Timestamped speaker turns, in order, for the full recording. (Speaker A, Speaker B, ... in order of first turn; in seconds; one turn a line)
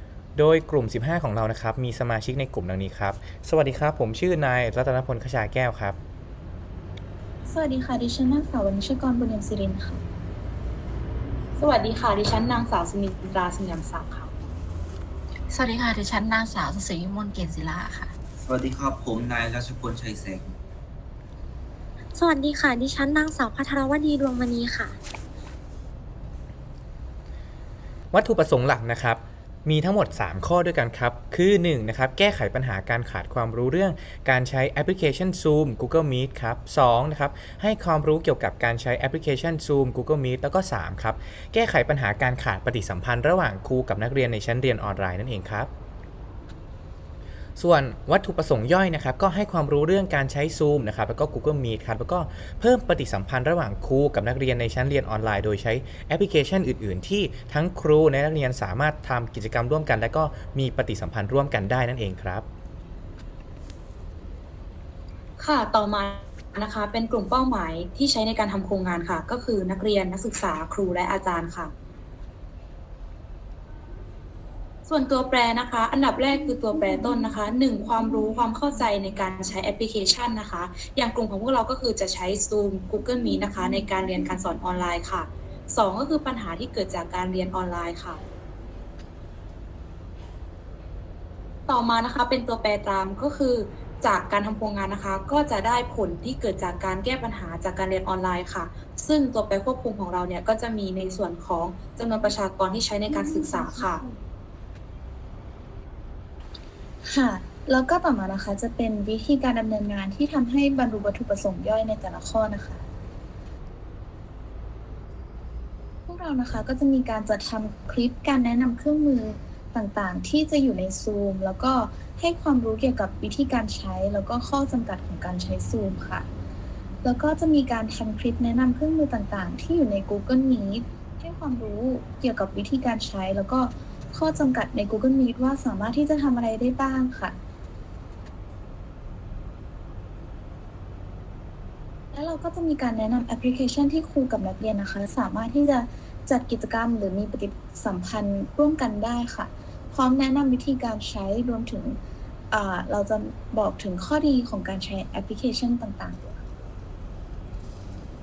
Speaker A: 0.3-6.0
Speaker B: 7.5-10.0
Speaker C: 11.6-14.3
Speaker D: 15.5-18.1
Speaker E: 18.4-20.5
Speaker F: 22.1-24.9
Speaker A: 28.1-45.7
Speaker A: 47.6-62.5
Speaker C: 65.4-71.7
Speaker C: 74.9-88.2
Speaker C: 91.7-104.0
Speaker B: 103.1-104.2
Speaker B: 107.0-112.9
Speaker B: 116.0-126.3
Speaker B: 127.0-137.4
Speaker B: 142.1-152.0
Speaker B: 152.5-156.4